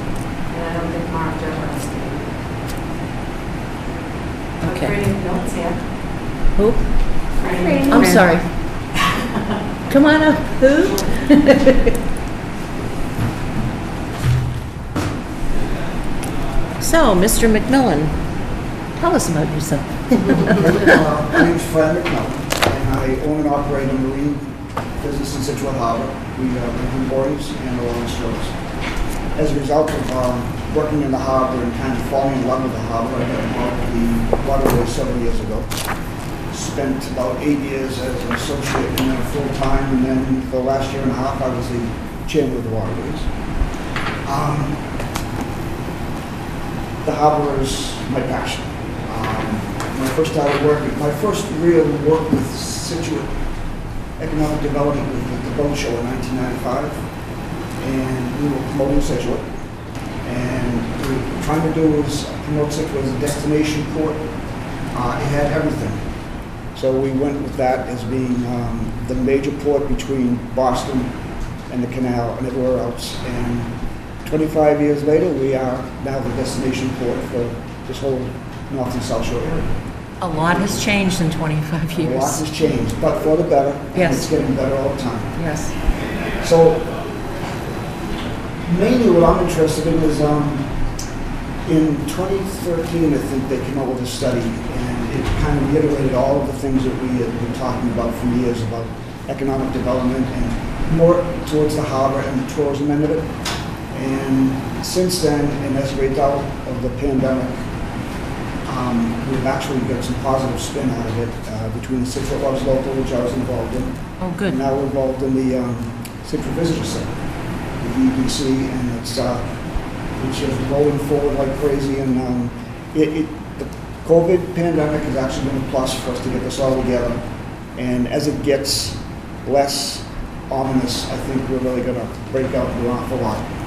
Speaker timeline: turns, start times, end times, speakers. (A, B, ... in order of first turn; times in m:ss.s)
0:00.6-0:01.8 A
0:04.6-0:05.1 B
0:06.5-0:06.9 B
0:07.4-0:08.2 A
0:07.6-0:08.5 B
0:09.9-0:11.0 B
0:16.8-0:18.2 B
0:19.0-0:21.0 B
0:20.5-0:28.6 C
0:29.4-0:35.8 C
0:36.5-0:43.3 C
0:44.2-0:44.9 C
0:47.0-0:53.4 C
0:54.2-0:57.0 C
0:57.8-0:59.5 C
1:00.2-1:04.3 C
1:04.9-1:06.1 C
1:06.7-1:11.2 C
1:11.7-1:19.8 C
1:20.2-1:22.4 B
1:20.5-1:20.8 C
1:22.0-1:25.4 C
1:23.9-1:24.3 B
1:25.3-1:25.8 B
1:26.4-1:27.0 C
1:28.6-1:30.7 C
1:31.6-1:43.4 C
1:43.9-1:47.7 C
1:48.6-1:57.2 C
1:54.2-1:54.6 B
1:57.8-1:59.6 C
2:00.2-2:07.2 C
2:07.8-2:13.5 C